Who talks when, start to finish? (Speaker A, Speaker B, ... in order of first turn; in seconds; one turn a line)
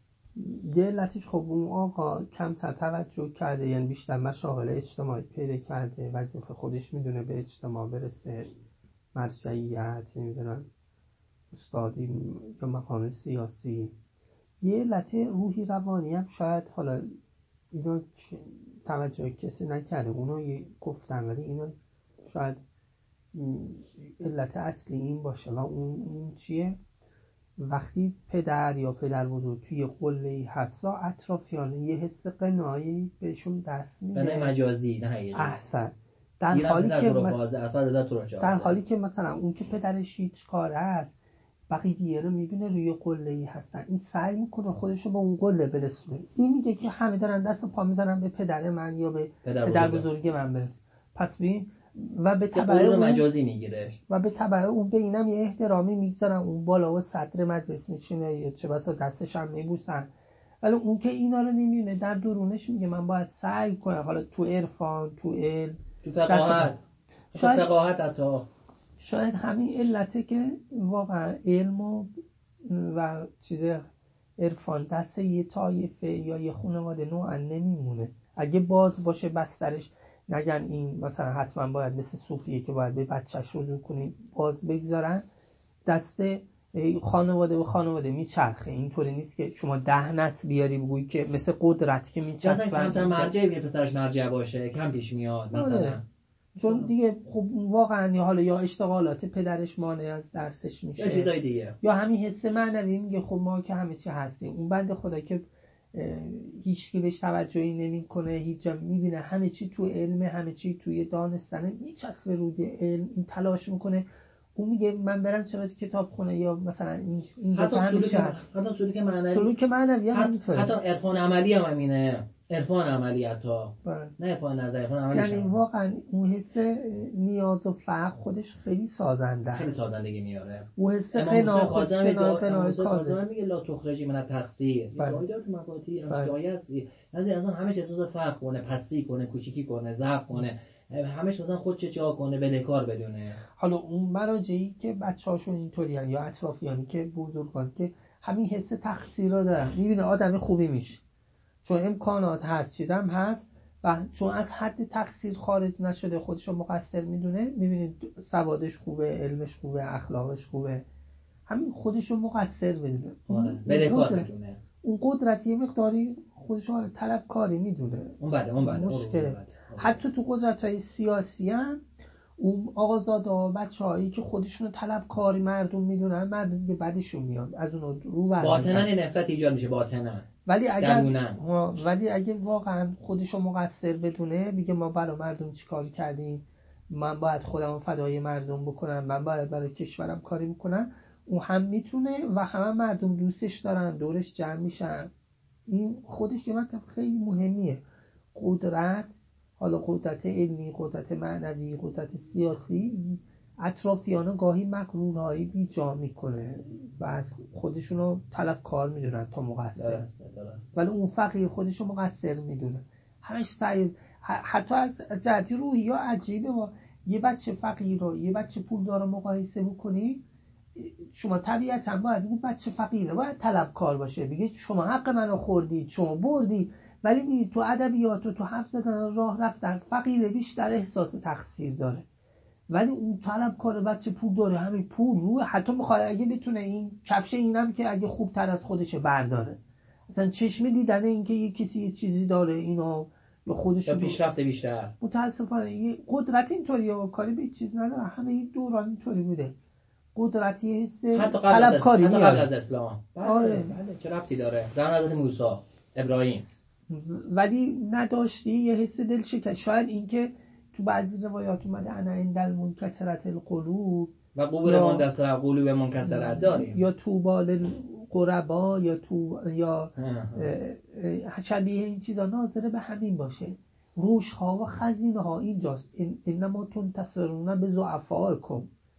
Speaker A: 0.3-8.5
Speaker A: 9.1-10.7
Speaker A: 11.5-13.9
Speaker A: 14.6-17.1
Speaker A: 17.7-22.6
Speaker A: 23.3-26.8
Speaker A: 27.6-34.5
Speaker B: 34.1-35.6
Speaker A: 35.3-37.4
Speaker B: 36.5-38.8
Speaker A: 38.4-41.1
Speaker A: 41.7-53.2
Speaker B: 49.4-50.1
Speaker B: 52.5-54.0
Speaker A: 54.1-60.1
Speaker A: 60.6-66.7
Speaker B: 66.0-66.8
Speaker A: 67.3-67.7
Speaker B: 67.3-68.5
Speaker A: 69.0-72.1
Speaker A: 72.6-73.8
Speaker A: 74.4-85.2
Speaker A: 85.8-93.3
Speaker B: 92.4-96.0
Speaker A: 95.5-96.0
Speaker A: 96.5-118.4
Speaker B: 96.6-96.9
Speaker B: 101.0-101.8
Speaker B: 117.5-119.5
Speaker A: 119.3-120.8
Speaker B: 120.1-125.5
Speaker A: 123.8-124.1
Speaker A: 125.1-129.8
Speaker B: 129.5-143.4
Speaker A: 130.8-133.2
Speaker A: 134.9-135.2
Speaker A: 136.1-136.3
Speaker A: 143.6-151.0
Speaker A: 151.6-160.8
Speaker A: 161.5-164.3
Speaker B: 163.3-164.6
Speaker A: 164.8-171.8
Speaker B: 168.2-170.0
Speaker A: 172.4-178.9
Speaker B: 178.4-180.2
Speaker A: 180.4-195.1
Speaker B: 180.8-181.4
Speaker A: 195.7-197.8
Speaker A: 198.3-210.1
Speaker B: 209.8-210.7
Speaker A: 210.7-220.2
Speaker A: 220.8-232.0
Speaker A: 232.7-239.6
Speaker A: 240.1-244.2
Speaker B: 243.8-244.9
Speaker A: 245.0-249.5
Speaker A: 250.1-252.5
Speaker B: 251.1-256.4
Speaker A: 253.2-253.8
Speaker A: 256.9-265.1
Speaker B: 264.3-266.8
Speaker A: 266.0-278.7
Speaker B: 270.0-270.5